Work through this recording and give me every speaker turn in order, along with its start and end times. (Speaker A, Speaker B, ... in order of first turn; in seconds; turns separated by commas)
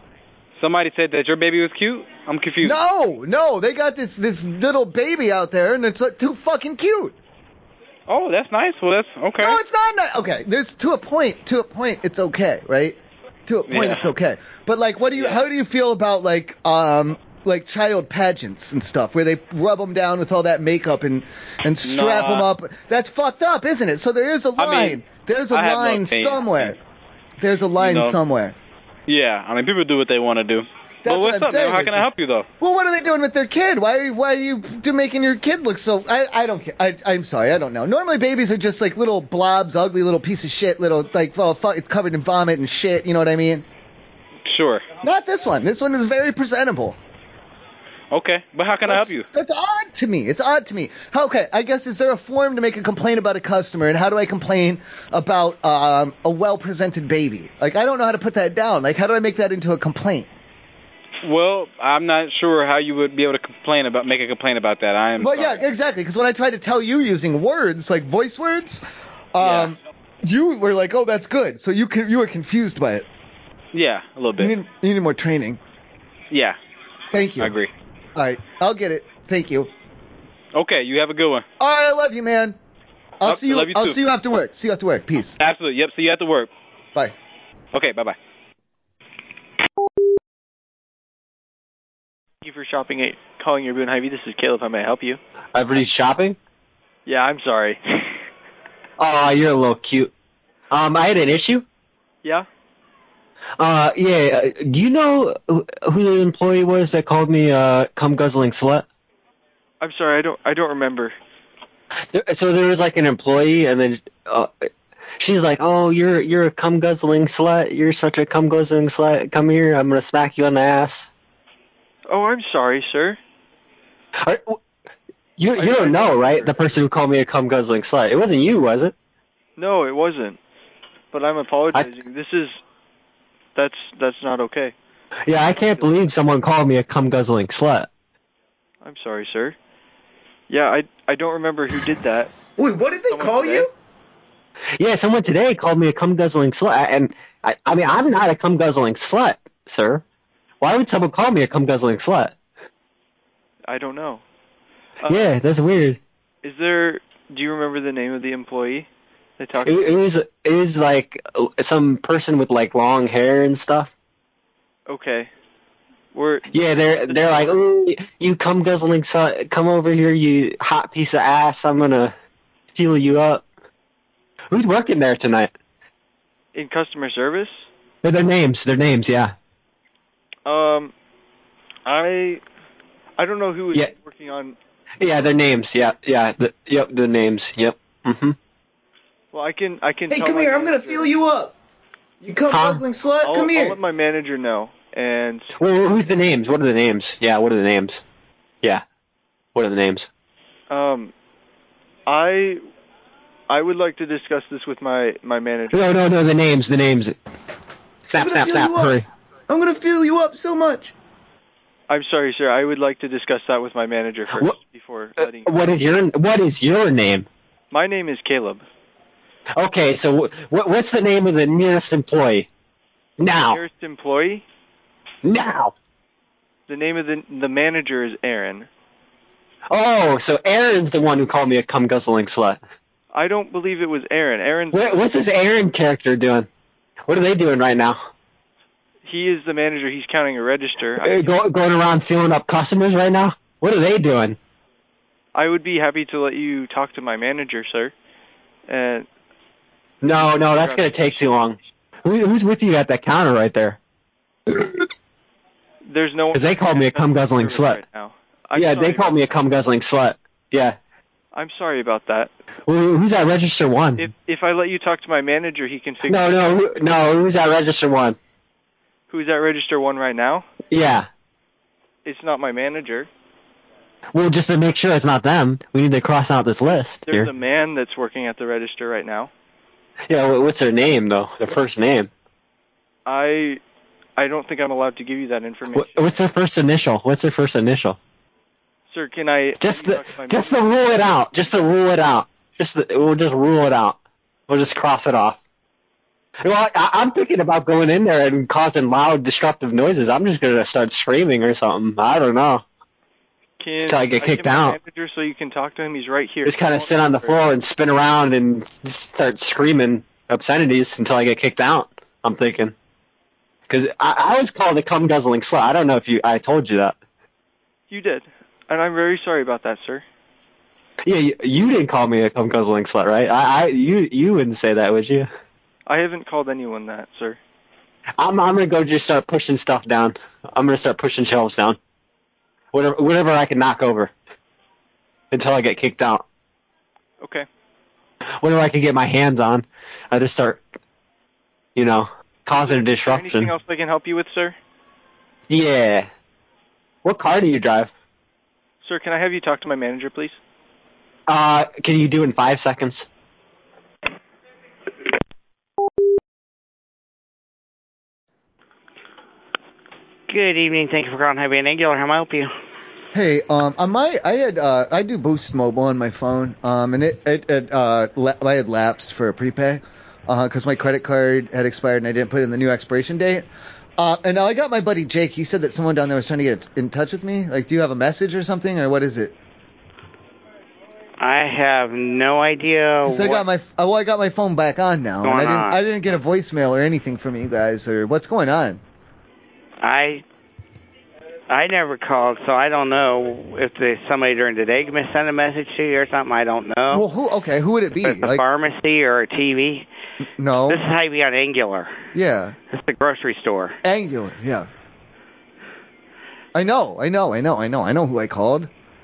Speaker A: 0.6-2.8, Speaker B: 2.6-7.1, Speaker A: 8.1-9.6, Speaker B: 9.4-26.8, Speaker A: 13.7-14.1, Speaker A: 15.1-15.4, Speaker A: 21.8-22.5, Speaker A: 24.6-25.0, Speaker A: 25.5-26.7, Speaker B: 27.4-28.5, Speaker A: 27.8-28.2, Speaker A: 29.1-32.5, Speaker B: 31.0-32.1, Speaker B: 32.6-43.6, Speaker A: 44.5-44.8, Speaker B: 45.0-47.0, Speaker A: 48.1-49.2, Speaker B: 48.8-60.3, Speaker A: 61.2-65.7, Speaker B: 65.2-68.8, Speaker B: 69.3-73.0, Speaker A: 69.4-69.7, Speaker A: 73.7-74.5, Speaker B: 74.4-75.6, Speaker A: 76.3-76.6, Speaker B: 77.1-77.5, Speaker A: 77.4-77.7, Speaker B: 78.2-79.7, Speaker A: 80.5-81.4, Speaker B: 81.6-82.5, Speaker B: 83.2-85.4, Speaker A: 83.2-84.0, Speaker A: 85.4-86.5, Speaker A: 87.7-88.2, Speaker C: 92.4-95.2, Speaker D: 95.5-96.4, Speaker C: 97.0-97.8, Speaker D: 99.0-100.1, Speaker D: 100.7-101.6, Speaker D: 103.6-108.8, Speaker C: 109.8-111.1, Speaker D: 112.1-114.5, Speaker D: 115.2-121.1, Speaker C: 122.1-123.2, Speaker D: 124.2-124.6, Speaker D: 125.4-128.9, Speaker C: 125.6-126.5, Speaker C: 129.6-130.4, Speaker C: 131.1-132.6, Speaker C: 133.5-134.7, Speaker D: 135.3-137.9, Speaker C: 135.5-135.8, Speaker C: 138.8-139.6, Speaker C: 140.5-142.3, Speaker B: 142.6-143.7, Speaker C: 143.1-143.7, Speaker D: 144.8-150.0, Speaker D: 150.6-152.3, Speaker C: 153.7-154.2, Speaker C: 155.0-155.3, Speaker D: 155.1-156.0, Speaker C: 156.4-158.9, Speaker C: 159.4-159.9, Speaker D: 159.6-163.9, Speaker C: 164.9-165.3, Speaker C: 166.1-167.6, Speaker D: 166.5-172.1, Speaker D: 172.7-173.4, Speaker D: 174.5-175.5, Speaker C: 176.5-177.7, Speaker D: 178.0-179.3, Speaker C: 180.4-180.9, Speaker C: 181.8-182.4, Speaker C: 183.2-184.6, Speaker D: 185.0-188.3, Speaker C: 189.3-191.1, Speaker B: 190.1-191.5, Speaker B: 192.2-193.8, Speaker D: 192.5-192.8, Speaker C: 193.2-195.6, Speaker D: 195.6-198.0, Speaker D: 199.5-200.1, Speaker C: 200.7-201.1, Speaker C: 202.1-202.6, Speaker C: 203.5-205.9, Speaker D: 205.7-207.1, Speaker D: 208.0-209.0, Speaker B: 208.2-208.9, Speaker B: 209.5-210.9, Speaker C: 211.9-215.5, Speaker D: 214.3-214.6, Speaker D: 215.2-217.2, Speaker C: 217.7-218.6, Speaker D: 219.6-222.5, Speaker D: 223.2-223.6, Speaker C: 223.5-224.4, Speaker D: 225.2-225.7, Speaker C: 226.7-228.7, Speaker D: 229.7-232.6, Speaker C: 233.1-235.2, Speaker D: 234.7-236.5, Speaker D: 237.1-238.0, Speaker C: 239.0-241.3, Speaker D: 241.0-244.4, Speaker C: 245.3-247.9, Speaker C: 248.7-249.1, Speaker D: 250.0-253.8, Speaker C: 250.1-251.3, Speaker C: 255.8-259.3, Speaker D: 256.3-257.8, Speaker D: 258.5-260.8, Speaker C: 261.3-262.3, Speaker D: 262.7-264.1, Speaker C: 264.0-266.6, Speaker D: 266.0-268.1, Speaker C: 269.1-270.4, Speaker D: 270.7-271.1, Speaker C: 272.0-273.1, Speaker D: 274.1-277.3, Speaker C: 277.1-279.3, Speaker D: 280.1-282.1, Speaker C: 283.1-283.6, Speaker C: 284.2-286.1, Speaker D: 285.7-288.0, Speaker C: 288.9-290.6, Speaker D: 289.6-294.0, Speaker D: 294.5-295.4, Speaker D: 296.4-302.6, Speaker C: 303.6-307.4, Speaker D: 303.8-304.8, Speaker D: 306.4-312.7, Speaker D: 313.7-317.0, Speaker C: 317.9-320.0, Speaker D: 321.0-325.3, Speaker C: 325.9-327.4, Speaker D: 328.2-331.8, Speaker D: 332.7-334.1, Speaker D: 335.3-336.2, Speaker C: 337.2-337.5, Speaker D: 338.4-340.6, Speaker D: 341.8-343.5, Speaker C: 342.5-344.6, Speaker D: 345.5-346.1, Speaker D: 347.0-347.9, Speaker C: 348.8-350.4, Speaker D: 351.3-353.1, Speaker E: 360.3-362.5, Speaker B: 363.1-373.4, Speaker B: 374.0-379.3, Speaker E: 381.2-383.4, Speaker B: 383.0-388.8, Speaker E: 385.2-385.8, Speaker E: 389.8-390.2, Speaker E: 391.5-397.0, Speaker B: 396.9-398.4, Speaker E: 398.0-399.9, Speaker B: 400.4-400.8, Speaker E: 400.7-401.9, Speaker B: 402.1-402.5, Speaker E: 402.7-403.8, Speaker B: 403.8-404.7, Speaker B: 406.5-408.7